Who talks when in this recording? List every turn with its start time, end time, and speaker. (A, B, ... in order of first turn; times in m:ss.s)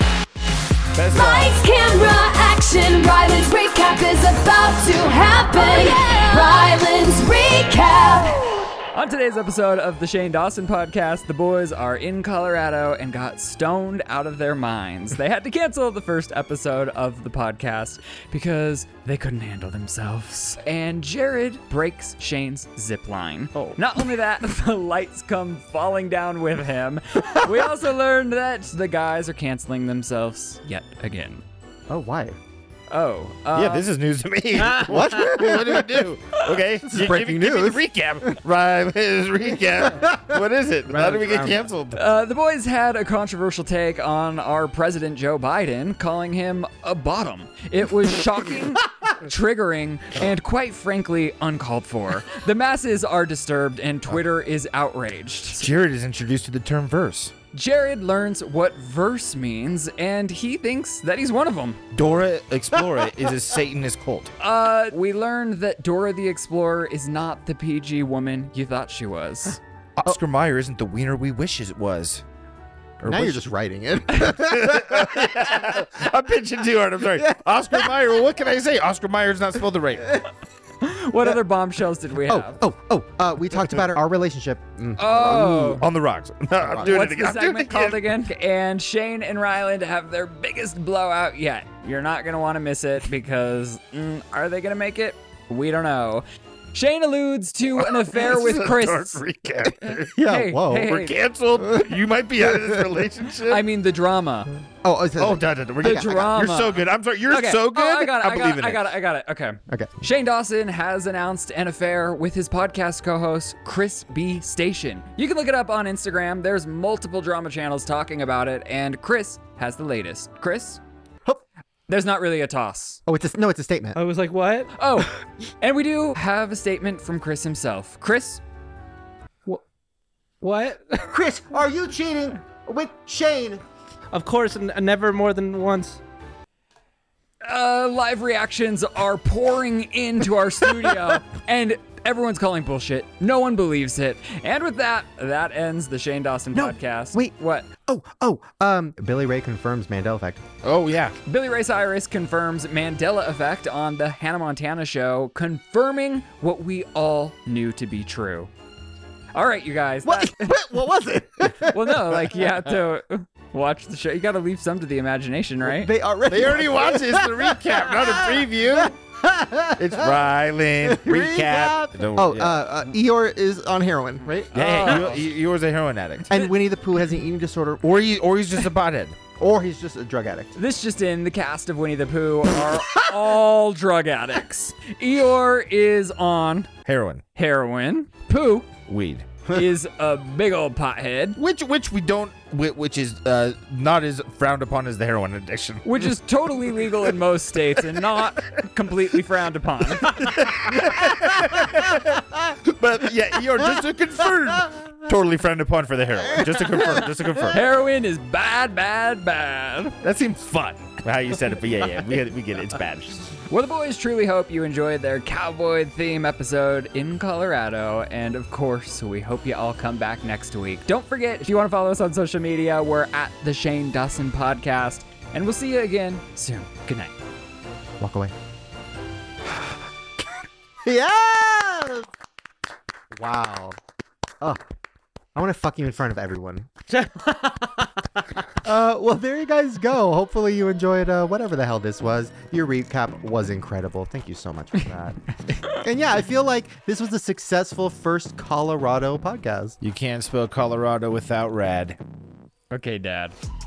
0:01.0-0:01.6 A
0:01.1-0:08.7 B
0:08.9-0:31.4 C
0:31.9-0:32.4 D
0:32.9-0:33.9 C
0:33.5-0:42.0 A
0:34.7-0:36.2 D
0:36.8-0:38.4 D
0:40.0-0:40.4 D
0:40.9-0:41.6 E
0:41.9-0:55.7 C
0:55.6-0:57.3 A
0:57.5-1:01.8 C
1:01.9-1:04.3 A
1:04.4-1:09.6 C
1:10.0-1:12.2 A
1:13.0-1:13.5 A
1:13.0-1:16.0 D
1:14.1-1:20.2 A
1:17.1-1:18.0 D
1:20.8-1:22.6 C
1:22.3-1:25.8 D
1:23.6-1:23.9 A
1:25.0-1:25.9 C
1:25.2-1:28.0 A
1:26.6-1:27.0 D
1:26.8-1:39.2 C
1:37.8-1:40.2 A
1:39.8-1:41.1 C
1:40.1-1:41.0 D
1:40.8-1:43.6 A
1:41.6-1:42.8 D
1:43.5-1:44.5 C
1:44.8-1:46.3 D
1:45.2-1:49.0 A
1:45.8-2:00.8 C
2:01.9-2:03.0 C
2:03.1-2:04.0 D
2:03.9-2:05.0 E
2:04.8-2:08.4 C
2:10.4-2:11.1 E
2:11.0-2:13.6 D
2:14.1-2:16.0 E
2:17.4-2:27.7 C
2:26.5-2:30.4 D
2:30.6-2:31.2 A
2:31.3-2:38.5 C
2:39.3-2:40.6 C
2:40.0-2:42.4 D
2:41.7-2:45.9 C
2:45.6-2:54.5 D
2:46.3-2:49.0 A
2:49.8-2:52.6 A
2:54.5-2:55.2 C
2:54.5-2:56.3 A
2:56.3-2:57.9 D
2:57.8-2:59.2 A
2:59.4-3:00.6 D
3:00.6-3:06.7 C
3:06.8-3:07.2 A
3:07.4-3:08.7 C
3:08.9-3:09.3 A
3:09.5-3:11.4 C
3:11.4-3:16.1 A
3:15.8-3:20.3 C
3:20.2-3:27.6 A
3:20.8-3:22.4 D
3:26.3-3:27.2 D
3:27.5-3:30.0 C
3:30.0-3:33.3 A
3:33.5-3:47.2 C
3:48.0-3:48.3 D
3:50.8-3:52.1 D
3:53.1-3:53.8 D
3:55.4-3:56.7 D
3:57.1-3:57.6 E
3:58.6-4:09.8 D
4:09.8-4:12.0 A
4:12.7-4:13.4 C